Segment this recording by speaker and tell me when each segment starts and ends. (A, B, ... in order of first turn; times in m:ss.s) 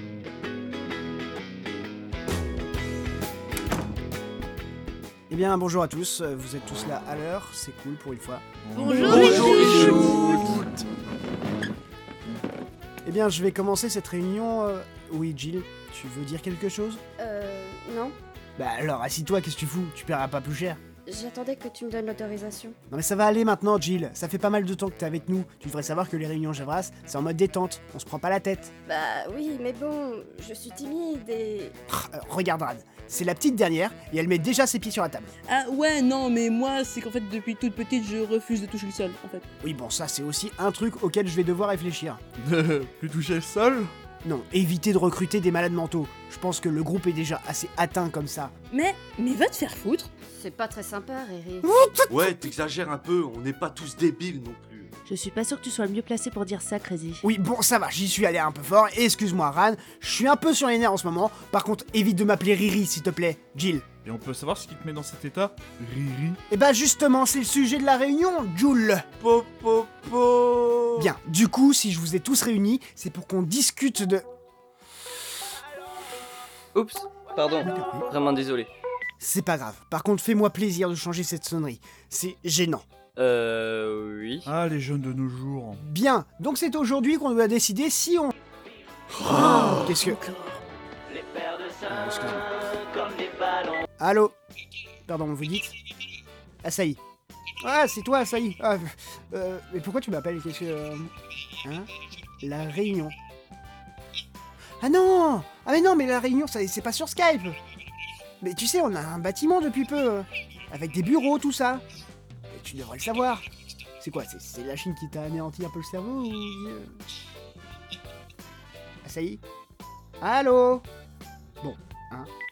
0:05.3-0:08.4 A
0:08.6-0:10.7 B
0:08.7-0:10.2 C
0:09.1-0:10.8 D
0:09.3-0:09.9 A
0:13.0-0:17.0 A
0:17.2-0:18.1 E
0:18.6-0:20.8 A
0:21.1-0:22.8 E
0:22.9-0:28.7 A
0:28.9-0:31.7 E
0:31.9-0:35.3 A
0:35.5-0:39.4 F
0:39.6-0:42.2 A
0:42.4-0:43.9 B
0:44.2-0:48.5 A
0:48.7-0:50.1 F
0:50.3-0:51.7 E
0:51.6-0:52.5 A
0:52.1-0:54.9 D
0:55.0-0:57.2 C
0:57.2-1:03.9 A
1:04.0-1:06.4 B
1:06.5-1:09.0 A
1:09.2-1:09.8 D
1:11.0-1:14.2 A
1:16.7-1:18.7 G
1:17.6-1:18.1 A
1:19.2-1:22.8 A
1:23.2-1:24.4 G
1:24.4-1:25.8 B
1:25.8-1:28.3 A
1:29.2-1:30.2 A
1:31.8-1:32.7 A
1:34.0-1:34.4 A
1:35.1-1:35.7 A
1:36.6-1:37.0 A
1:37.6-1:41.1 A
1:41.6-1:41.9 A
1:42.4-1:43.1 A
1:44.8-1:47.6 A
1:48.4-1:51.8 A
1:52.5-1:53.4 A
1:54.0-1:56.9 A
1:59.0-1:59.4 A
2:00.2-2:00.8 A
2:01.6-2:02.3 A